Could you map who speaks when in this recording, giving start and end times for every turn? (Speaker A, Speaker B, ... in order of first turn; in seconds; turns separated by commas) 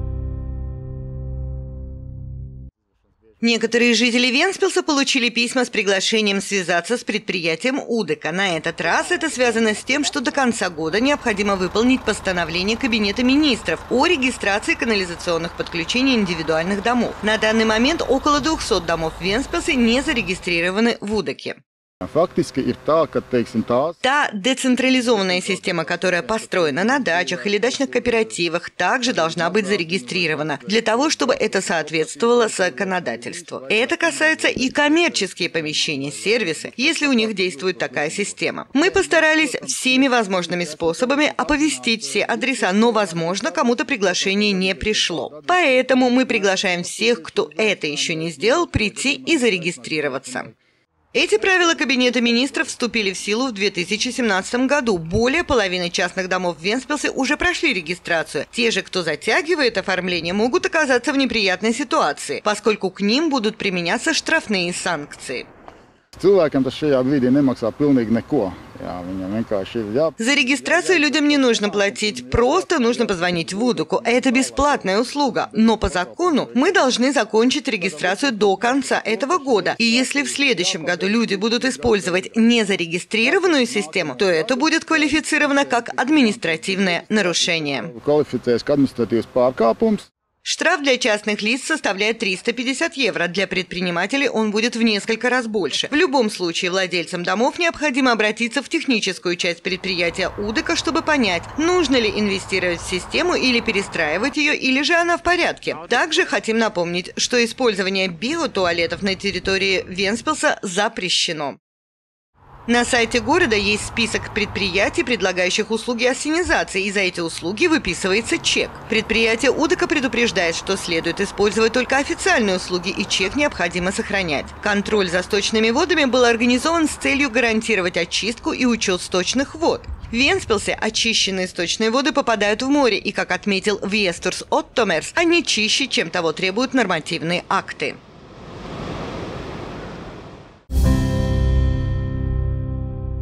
Speaker A: 3.4-21.6, Speaker B: 22.0-23.9, Speaker A: 24.0-50.5, Speaker A: 51.1-65.5, Speaker B: 66.2-70.1, Speaker A: 70.2-87.9, Speaker B: 70.9-72.2, Speaker B: 72.7-74.2, Speaker B: 87.9-90.1, Speaker A: 90.4-111.6, Speaker A: 112.7-138.0